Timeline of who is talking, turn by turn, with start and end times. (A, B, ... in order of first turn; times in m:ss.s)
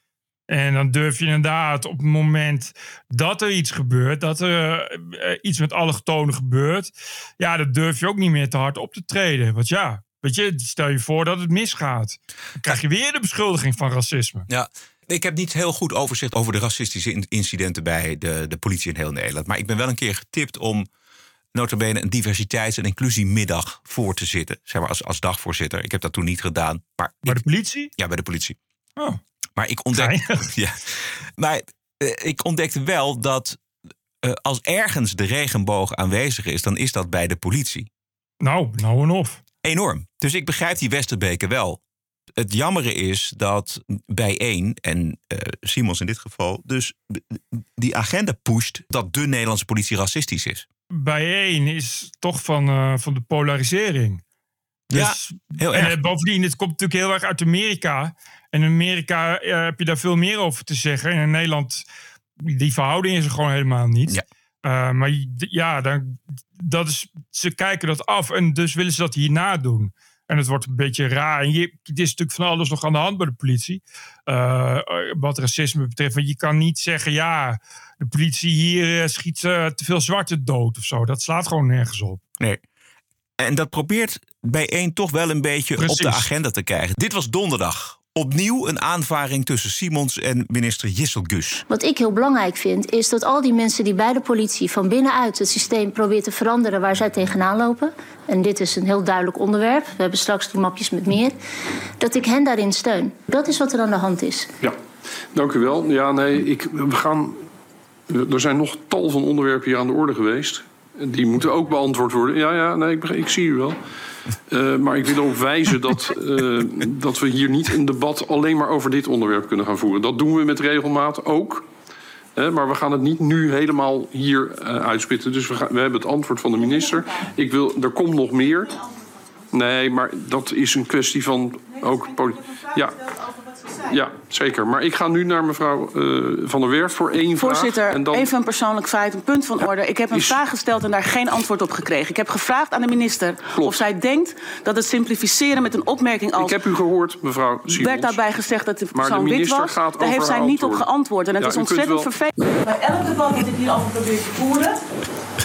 0:00.5-0:14.5 A
0:14.5-0:20.9 B
0:21.5-0:27.4 B
0:27.2-0:27.9 A
0:28.0-0:28.6 B
0:29.6-0:33.6 B
0:29.9-0:30.5 A
0:34.2-0:37.9 B
0:38.4-0:39.4 A
0:39.6-0:41.8 B
0:42.4-0:50.6 B
0:50.9-0:54.2 A
0:54.9-0:56.0 B
0:54.9-1:01.8 A
1:02.4-1:22.2 A
1:23.4-1:31.6 B
1:25.8-1:26.3 A
1:31.7-1:41.4 C
1:42.0-1:44.5 C
1:45.3-1:47.4 D
1:48.1-1:53.8 D
1:54.5-2:01.7 D
2:02.4-2:08.8 D
2:06.6-2:07.0 E
2:09.5-2:13.0 D
2:13.9-2:18.3 D
2:17.4-2:26.6 E
2:19.6-2:20.4 D
2:26.4-2:28.2 D
2:27.7-2:34.8 E
2:28.9-2:32.1 D